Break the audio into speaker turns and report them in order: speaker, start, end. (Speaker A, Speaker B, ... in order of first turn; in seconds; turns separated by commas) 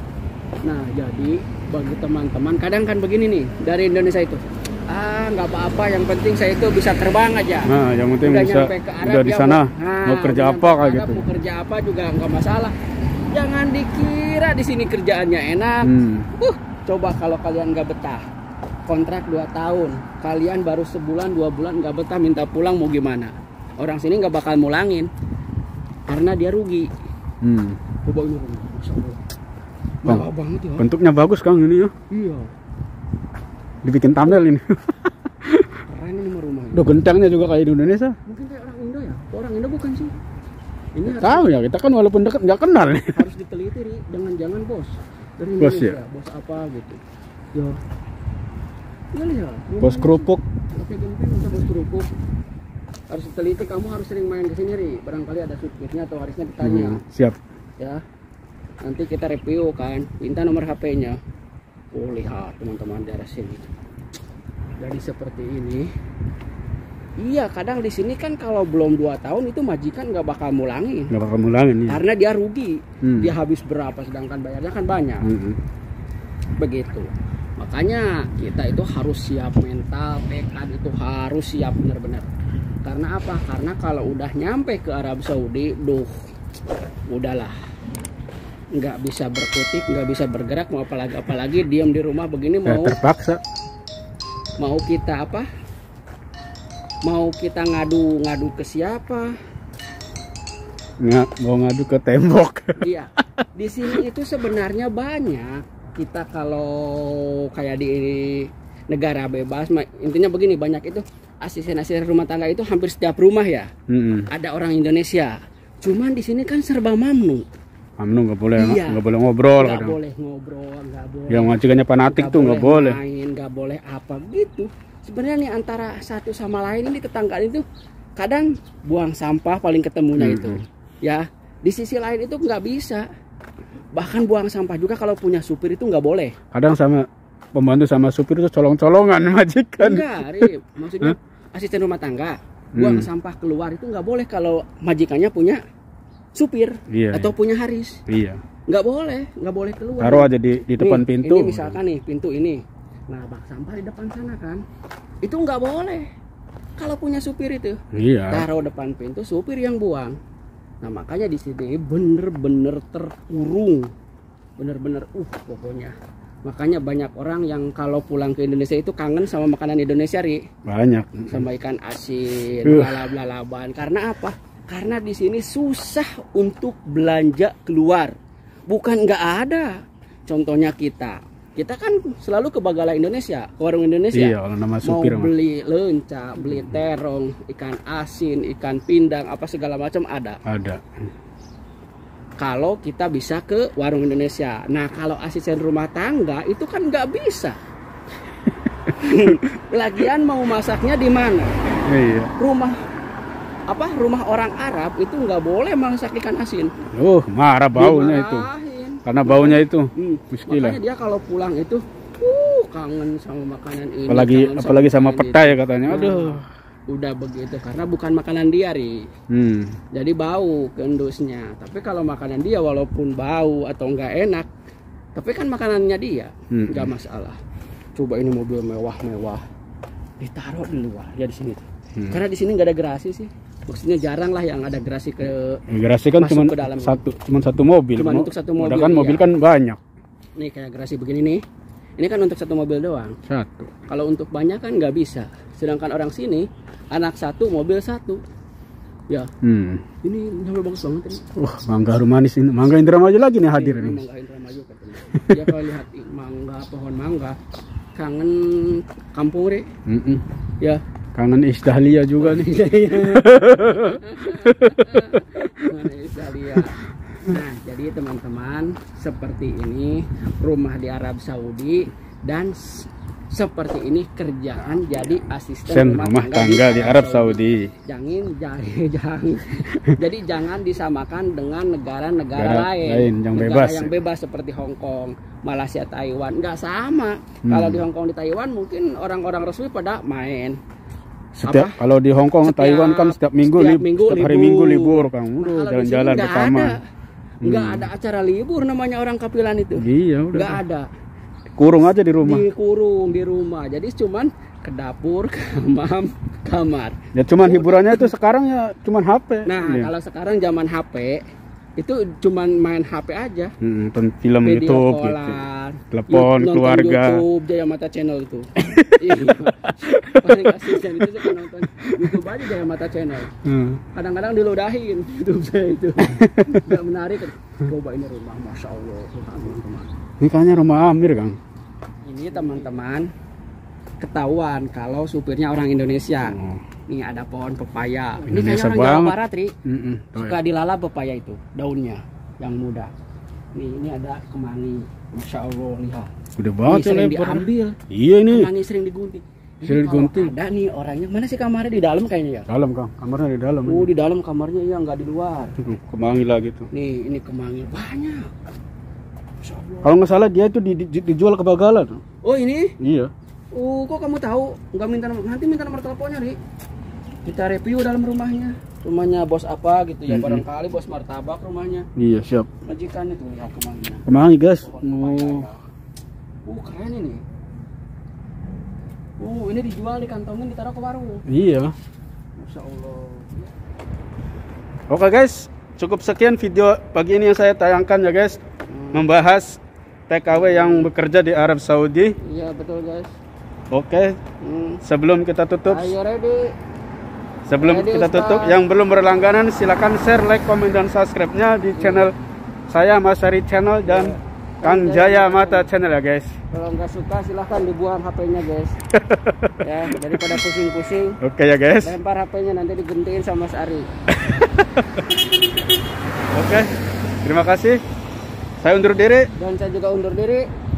Speaker A: 0.6-7.7, Speaker B: 7.7-11.3, Speaker A: 8.2-12.7, Speaker A: 13.3-18.2, Speaker B: 15.8-16.3, Speaker A: 18.9-25.1, Speaker A: 26.1-26.9, Speaker B: 27.4-27.8, Speaker A: 28.0-29.2, Speaker A: 30.0-30.9, Speaker B: 30.1-31.9, Speaker A: 32.1-32.5, Speaker B: 33.8-35.7, Speaker A: 35.9-37.0, Speaker B: 36.7-38.2, Speaker A: 38.3-40.1, Speaker A: 41.0-41.5, Speaker B: 41.1-43.2, Speaker A: 43.1-47.0, Speaker B: 45.6-46.0, Speaker A: 49.1-52.1, Speaker B: 49.8-50.4, Speaker A: 53.1-57.0, Speaker B: 56.6-57.4, Speaker A: 58.8-61.2, Speaker A: 61.9-63.7, Speaker A: 64.8-65.9, Speaker A: 67.2-71.1, Speaker B: 71.1-72.0, Speaker A: 71.9-75.3, Speaker B: 73.0-73.3, Speaker B: 75.2-75.6, Speaker A: 76.6-82.3, Speaker A: 82.8-86.1, Speaker A: 87.1-87.5, Speaker A: 88.8-93.0, Speaker B: 92.7-93.4, Speaker A: 94.6-95.5, Speaker A: 97.0-99.4, Speaker B: 101.0-102.8, Speaker A: 102.8-113.7, Speaker B: 113.9-114.3, Speaker A: 114.3-117.5, Speaker B: 118.0-120.0, Speaker A: 118.5-119.0, Speaker A: 119.6-127.6, Speaker B: 121.3-123.0, Speaker A: 128.2-133.1, Speaker B: 130.2-130.6, Speaker A: 133.9-136.3, Speaker B: 136.5-140.5, Speaker A: 139.8-145.6, Speaker B: 142.8-143.1, Speaker A: 146.3-148.0, Speaker B: 146.9-147.3, Speaker B: 148.1-148.4, Speaker A: 148.7-154.6, Speaker B: 150.0-151.8, Speaker A: 155.2-156.1, Speaker A: 156.8-160.2, Speaker B: 157.9-158.5, Speaker A: 160.8-163.9, Speaker A: 164.6-165.9, Speaker A: 166.4-170.4, Speaker B: 170.7-171.4, Speaker A: 171.3-178.1, Speaker B: 172.6-173.1, Speaker A: 178.7-190.4, Speaker B: 184.1-185.3, Speaker B: 190.5-190.8, Speaker A: 192.4-197.6, Speaker A: 198.9-201.6, Speaker B: 201.9-202.3, Speaker A: 202.4-202.8, Speaker A: 203.7-206.7, Speaker B: 206.9-208.5, Speaker A: 207.8-219.1, Speaker B: 209.1-210.8, Speaker B: 214.1-216.4, Speaker B: 219.3-219.8, Speaker A: 219.9-224.5, Speaker A: 225.2-227.4, Speaker B: 226.5-226.9, Speaker A: 228.0-229.4, Speaker A: 230.2-235.6, Speaker B: 235.7-239.8, Speaker A: 236.2-237.0, Speaker A: 238.0-239.3, Speaker A: 240.4-241.4, Speaker A: 242.0-243.2, Speaker B: 243.3-243.7, Speaker A: 243.9-248.2, Speaker B: 249.4-249.8, Speaker A: 250.0-251.2, Speaker B: 251.4-254.0, Speaker A: 253.5-257.4, Speaker A: 258.0-259.7, Speaker B: 259.9-260.2, Speaker B: 261.1-265.8, Speaker A: 262.2-290.6, Speaker B: 275.7-277.7, Speaker B: 282.4-283.9, Speaker B: 287.5-287.8, Speaker A: 291.4-291.8, Speaker B: 291.4-296.8, Speaker A: 292.4-296.8, Speaker B: 297.4-297.9, Speaker A: 297.4-300.9, Speaker B: 299.8-300.6, Speaker B: 301.6-302.5, Speaker A: 302.2-308.1, Speaker B: 307.1-309.9, Speaker A: 309.5-311.2, Speaker A: 311.8-313.5, Speaker B: 313.6-315.4, Speaker A: 314.4-323.3, Speaker B: 315.9-317.2, Speaker B: 318.6-322.2, Speaker B: 323.4-323.8, Speaker A: 323.9-329.9, Speaker B: 326.0-326.6, Speaker B: 330.2-331.4, Speaker A: 332.1-333.1, Speaker A: 334.0-336.4, Speaker B: 336.3-336.6, Speaker A: 336.9-339.5, Speaker B: 338.3-340.4, Speaker A: 340.2-342.9, Speaker A: 343.6-346.1, Speaker B: 346.4-348.5, Speaker A: 346.7-352.5, Speaker B: 349.6-350.3, Speaker B: 352.5-353.9, Speaker A: 353.7-355.5, Speaker B: 355.6-356.7, Speaker A: 356.7-358.3, Speaker A: 359.4-360.0, Speaker B: 359.8-362.0, Speaker A: 362.2-362.7, Speaker B: 362.8-363.1, Speaker A: 363.5-366.4, Speaker A: 367.2-371.9, Speaker B: 370.1-370.4, Speaker B: 372.0-372.5, Speaker A: 372.6-374.1, Speaker B: 374.1-375.5, Speaker A: 374.6-375.6, Speaker A: 376.5-377.2, Speaker A: 379.2-381.2, Speaker B: 381.3-381.7, Speaker A: 382.4-383.5, Speaker B: 384.9-388.4, Speaker A: 388.7-389.1, Speaker B: 388.9-392.2, Speaker A: 390.3-390.9, Speaker A: 392.2-393.1, Speaker B: 393.7-394.2, Speaker A: 394.4-394.8, Speaker B: 394.8-395.9, Speaker A: 395.7-396.5, Speaker B: 397.5-402.1, Speaker A: 397.6-398.6, Speaker A: 401.7-402.1, Speaker B: 402.7-406.3, Speaker A: 403.9-405.7, Speaker A: 406.5-408.8, Speaker B: 408.9-410.3, Speaker A: 409.6-411.2, Speaker B: 411.2-412.0, Speaker A: 411.8-413.9, Speaker B: 414.1-415.1, Speaker B: 416.3-416.7, Speaker B: 417.2-417.8, Speaker B: 418.6-419.3, Speaker A: 419.4-420.4